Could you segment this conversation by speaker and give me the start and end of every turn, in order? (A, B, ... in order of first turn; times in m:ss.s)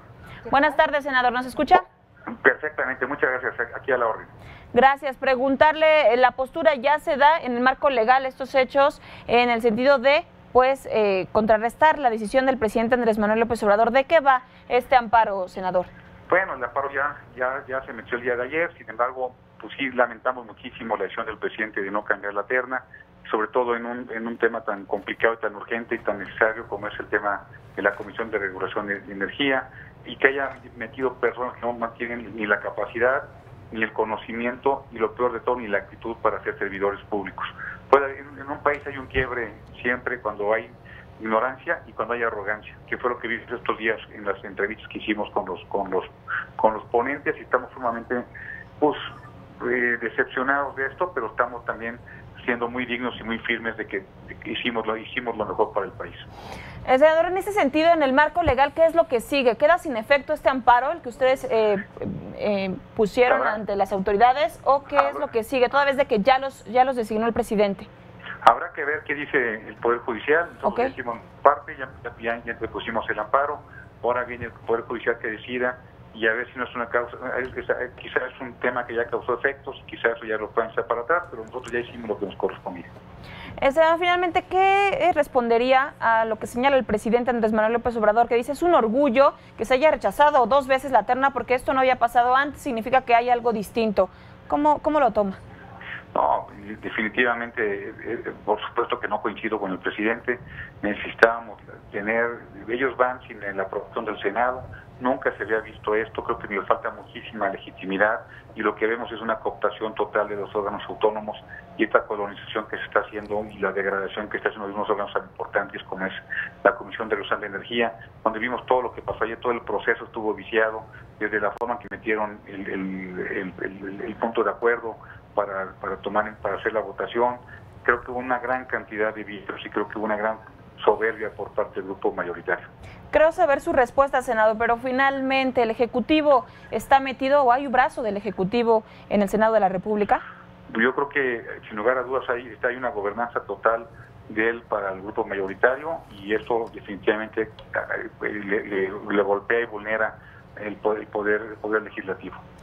0:00.5-0:01.8 A
0:02.3-0:04.3 B
0:04.7-0:15.9 A
0:16.3-0:48.2 B
0:48.8-0:49.0 B
0:49.6-0:56.2 B
0:56.8-1:07.9 A
1:03.3-1:03.6 B
1:04.9-1:05.2 B
1:08.4-1:22.9 B
1:10.6-1:10.9 A
1:23.6-1:35.4 A
1:36.1-2:12.7 B
2:13.1-2:20.2 A
2:20.7-2:32.4 B